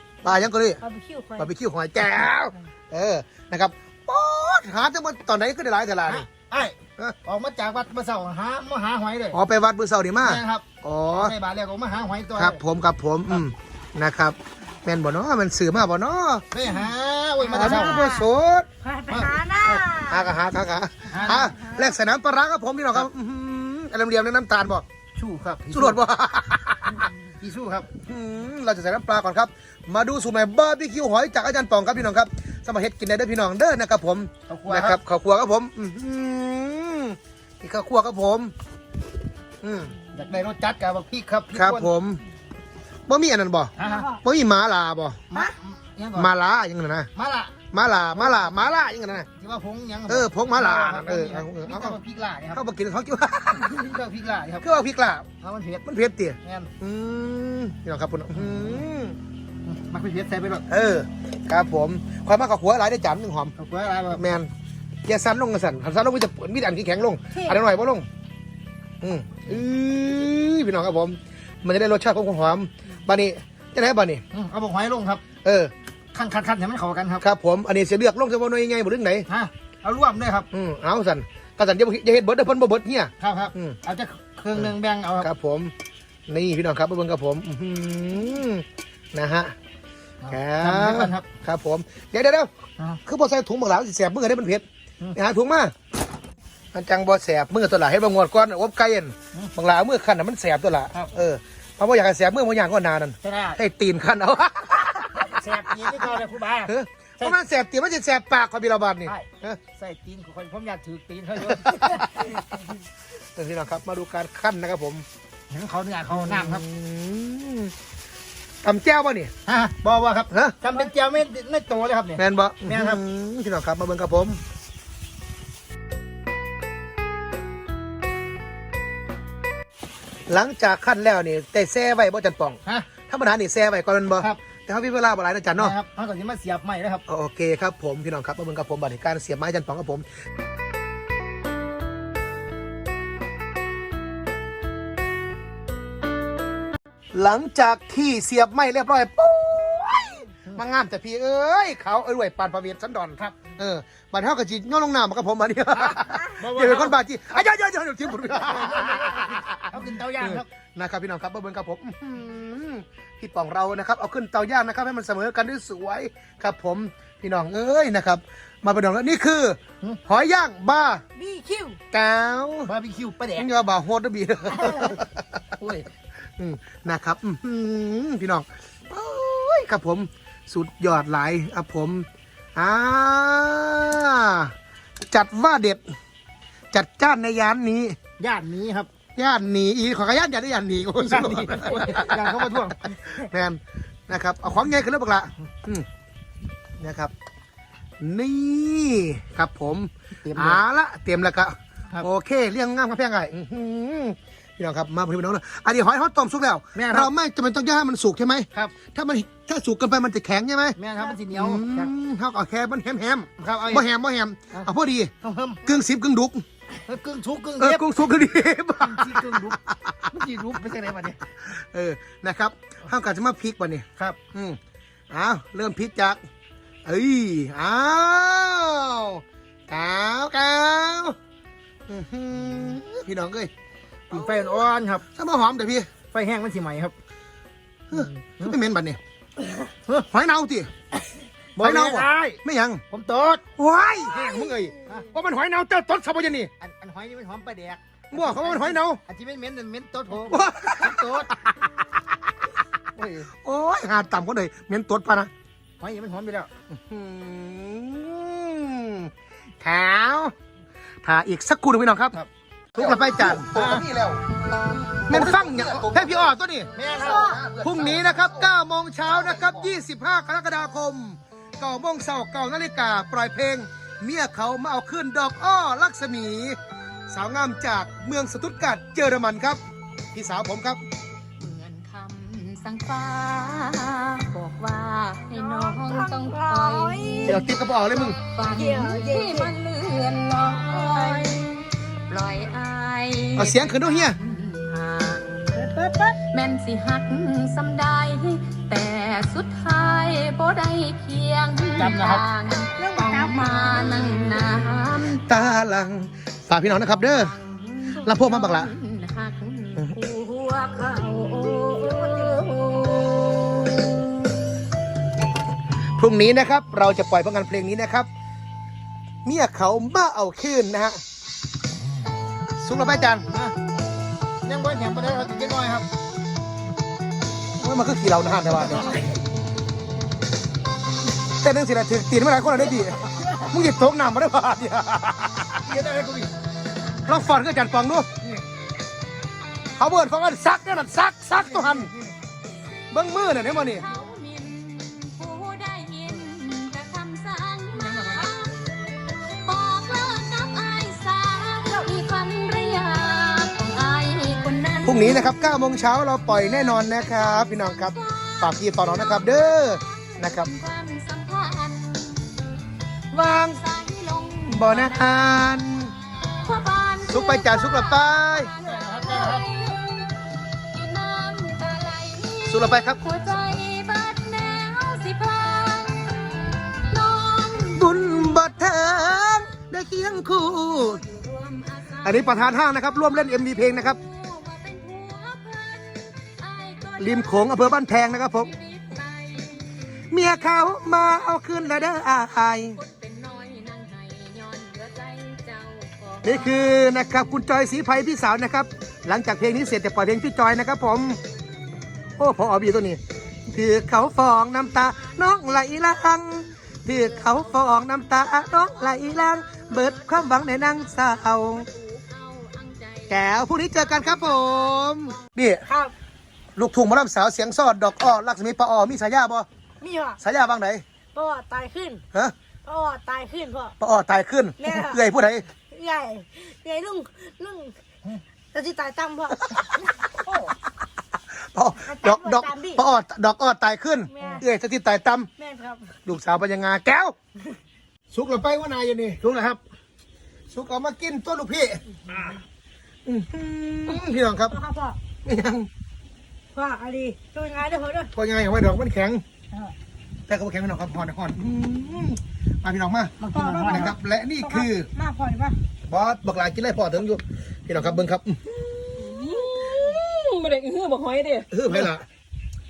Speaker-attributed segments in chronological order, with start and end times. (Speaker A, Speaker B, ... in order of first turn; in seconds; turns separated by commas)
Speaker A: 0.2-0.8, Speaker B: 0.8-1.5, Speaker A: 1.4-6.3, Speaker C: 6.1-9.4, Speaker A: 9.3-11.3, Speaker C: 10.2-10.7, Speaker C: 11.2-12.6, Speaker A: 12.4-16.5, Speaker C: 16.5-18.1, Speaker A: 17.5-18.7, Speaker B: 17.5-18.3, Speaker B: 18.8-20.3, Speaker C: 19.1-19.4, Speaker A: 19.7-24.9, Speaker C: 21.1-21.6, Speaker B: 21.4-21.9, Speaker C: 25.2-26.0, Speaker A: 25.7-27.1, Speaker C: 27.4-27.9, Speaker A: 28.0-38.5, Speaker C: 34.5-35.0, Speaker A: 39.6-40.0, Speaker C: 40.1-41.9, Speaker A: 41.5-42.2, Speaker A: 43.1-45.2, Speaker C: 43.8-44.1, Speaker C: 45.3-46.3, Speaker A: 46.1-47.1, Speaker C: 47.1-47.6, Speaker A: 47.7-49.3, Speaker C: 49.4-52.6, Speaker A: 50.1-52.0, Speaker A: 52.5-53.9, Speaker C: 53.6-54.7, Speaker A: 54.6-55.3, Speaker C: 55.4-55.8, Speaker A: 55.8-59.2, Speaker C: 56.4-56.7, Speaker C: 58.3-58.8, Speaker C: 59.7-60.7, Speaker A: 60.7-63.5, Speaker C: 63.6-64.2, Speaker A: 64.1-64.5, Speaker A: 65.1-68.1, Speaker A: 69.0-74.2, Speaker C: 74.3-75.2, Speaker A: 75.4-75.7, Speaker C: 76.1-77.2, Speaker A: 77.2-79.3, Speaker C: 79.3-80.5, Speaker A: 80.5-83.8, Speaker C: 83.2-85.3, Speaker A: 84.5-85.7, Speaker A: 86.3-89.5, Speaker C: 90.2-91.3, Speaker A: 90.3-92.5, Speaker A: 93.0-95.7, Speaker A: 96.7-105.3, Speaker C: 103.2-103.6, Speaker C: 105.2-107.4, Speaker A: 106.7-109.6, Speaker C: 109.1-112.6, Speaker A: 111.5-112.3, Speaker A: 113.4-115.0, Speaker C: 115.5-116.6, Speaker A: 116.1-117.7, Speaker A: 118.6-119.3, Speaker C: 119.5-123.0, Speaker A: 120.3-120.6, Speaker A: 122.2-124.4, Speaker A: 130.3-135.8, Speaker C: 135.6-137.0, Speaker A: 137.1-140.1, Speaker A: 147.1-171.0, Speaker C: 153.2-153.5, Speaker C: 156.2-157.0, Speaker C: 158.4-160.5, Speaker B: 171.2-171.8, Speaker A: 171.9-172.7, Speaker C: 172.7-173.5, Speaker A: 173.4-175.8, Speaker A: 176.4-185.8, Speaker A: 186.7-188.0, Speaker C: 188.2-188.9, Speaker A: 189.2-192.2, Speaker C: 191.0-193.2, Speaker A: 193.1-195.9, Speaker A: 196.8-197.1, Speaker A: 198.0-215.1, Speaker C: 200.2-200.6, Speaker C: 206.8-207.1, Speaker C: 210.8-211.9, Speaker C: 213.4-213.9, Speaker C: 214.5-215.8, Speaker A: 215.6-216.4, Speaker C: 216.8-217.9, Speaker A: 217.6-220.1, Speaker C: 218.8-219.6, Speaker C: 220.1-221.2, Speaker A: 221.4-224.6, Speaker A: 225.1-226.2, Speaker A: 226.9-231.2, Speaker A: 231.9-233.5, Speaker C: 234.1-235.0, Speaker A: 234.1-235.9, Speaker C: 236.1-236.9, Speaker A: 237.9-239.0, Speaker C: 237.9-238.6, Speaker A: 240.1-240.7, Speaker C: 241.6-243.4, Speaker A: 241.6-242.8, Speaker A: 243.6-246.5, Speaker D: 244.2-244.5, Speaker C: 244.8-245.1, Speaker C: 246.6-251.3, Speaker A: 248.1-249.0, Speaker A: 250.3-251.0, Speaker C: 253.0-253.3, Speaker A: 253.3-255.3, Speaker C: 255.8-256.5, Speaker A: 256.7-260.3, Speaker A: 261.0-262.2, Speaker C: 262.1-263.9, Speaker A: 262.8-264.2, Speaker C: 265.1-265.9, Speaker A: 265.1-276.6, Speaker C: 266.7-268.4, Speaker B: 267.0-267.4, Speaker C: 269.2-269.7, Speaker A: 277.1-279.6, Speaker A: 280.1-280.8, Speaker D: 281.4-295.8, Speaker B: 285.3-287.4, Speaker A: 287.2-288.2, Speaker B: 288.5-289.6, Speaker B: 290.6-291.4, Speaker A: 293.4-294.2, Speaker B: 295.6-296.2, Speaker D: 296.3-305.2, Speaker C: 301.8-302.2, Speaker B: 302.8-303.9, Speaker A: 305.0-307.4, Speaker D: 306.7-314.0, Speaker A: 308.0-308.7, Speaker B: 311.4-312.5, Speaker A: 316.0-318.1, Speaker A: 319.2-321.0, Speaker A: 322.6-323.3, Speaker C: 323.3-323.6, Speaker C: 324.4-325.9, Speaker A: 327.6-329.1, Speaker A: 331.4-335.6, Speaker C: 335.7-336.3, Speaker A: 337.1-338.1, Speaker A: 339.8-341.9, Speaker A: 342.9-343.9, Speaker D: 343.4-348.8, Speaker D: 349.4-355.4, Speaker A: 354.9-360.5, Speaker D: 356.3-362.4, Speaker D: 363.1-379.2, Speaker A: 363.3-363.5, Speaker A: 364.5-365.9, Speaker A: 367.1-368.5, Speaker C: 368.6-369.4, Speaker A: 372.5-373.0, Speaker A: 377.7-381.0, Speaker D: 380.3-389.9, Speaker A: 382.0-384.0, Speaker A: 387.0-388.5, Speaker A: 390.1-392.8, Speaker D: 392.7-396.9, Speaker A: 396.2-401.2, Speaker A: 402.2-411.7, Speaker D: 404.8-405.8, Speaker D: 406.9-415.3, Speaker A: 413.1-415.6, Speaker B: 415.7-415.9, Speaker A: 416.6-419.5, Speaker B: 419.8-420.2, Speaker A: 420.2-420.8, Speaker B: 421.1-422.0, Speaker B: 422.6-423.8, Speaker A: 423.8-425.5, Speaker B: 424.6-425.0, Speaker B: 425.7-427.8, Speaker B: 428.5-429.6, Speaker A: 431.5-435.3, Speaker B: 431.8-432.8, Speaker B: 434.1-434.4, Speaker B: 435.4-435.9, Speaker A: 436.1-437.2, Speaker A: 438.1-439.2, Speaker C: 439.2-439.6, Speaker A: 440.5-442.0, Speaker A: 443.1-444.6, Speaker B: 444.5-445.0, Speaker A: 445.2-445.7, Speaker B: 446.5-448.1, Speaker A: 448.1-449.2, Speaker A: 450.3-454.9, Speaker B: 453.2-455.6, Speaker C: 453.2-454.0, Speaker A: 455.9-459.5, Speaker E: 459.0-461.5, Speaker A: 461.5-462.1